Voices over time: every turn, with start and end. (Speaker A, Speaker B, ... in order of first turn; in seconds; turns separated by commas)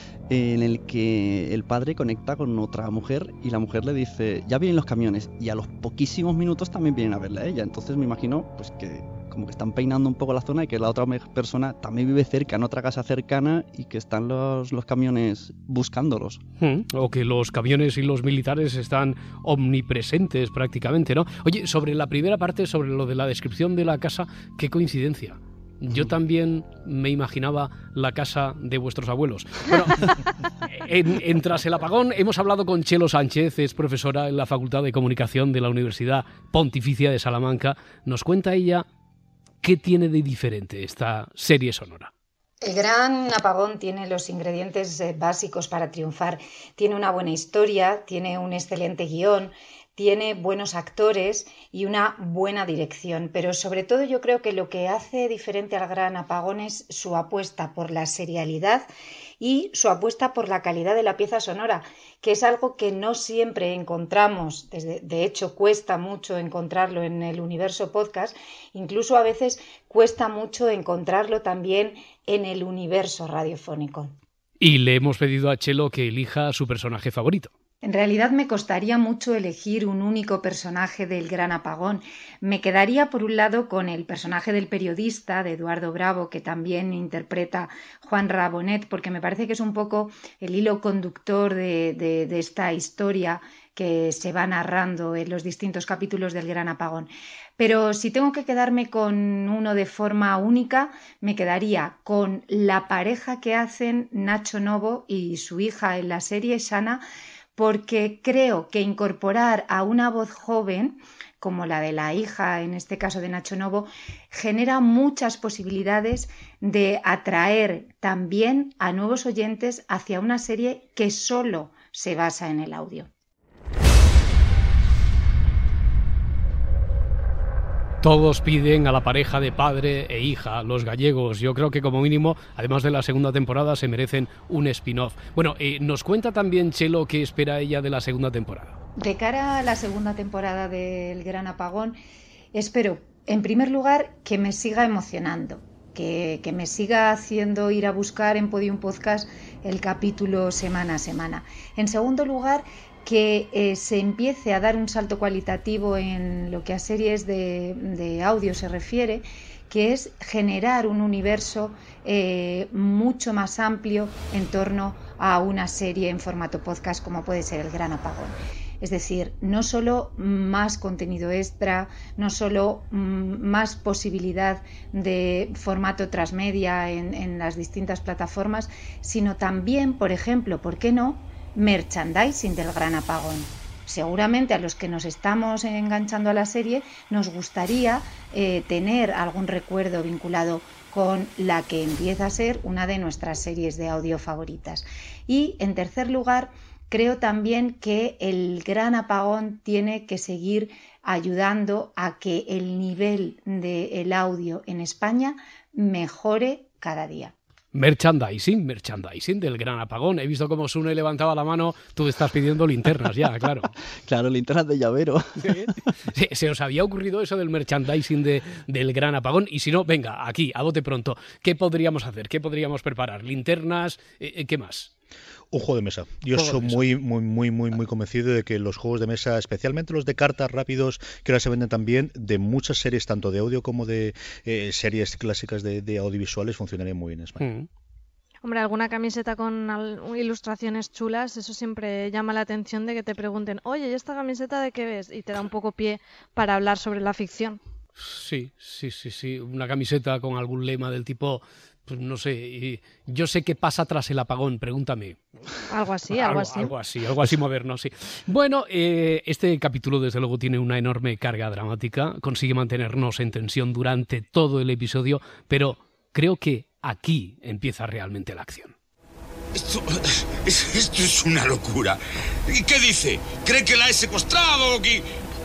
Speaker A: 0.3-16.4, Speaker B: 16.6-38.9, Speaker B: 39.6-42.1, Speaker C: 42.6-58.9, Speaker C: 59.4-74.2, Speaker B: 74.6-77.5, Speaker C: 77.8-107.0, Speaker C: 107.6-123.1, Speaker B: 128.0-138.8, Speaker C: 139.0-142.0, Speaker C: 142.5-207.3, Speaker B: 207.7-213.7, Speaker A: 214.1-215.7, Speaker B: 215.4-224.9, Speaker D: 225.5-237.4, Speaker B: 226.3-226.9, Speaker B: 237.4-237.7, Speaker E: 238.4-247.6, Speaker B: 248.0-255.3, Speaker E: 255.7-256.7, Speaker B: 256.1-268.8, Speaker F: 269.5-275.1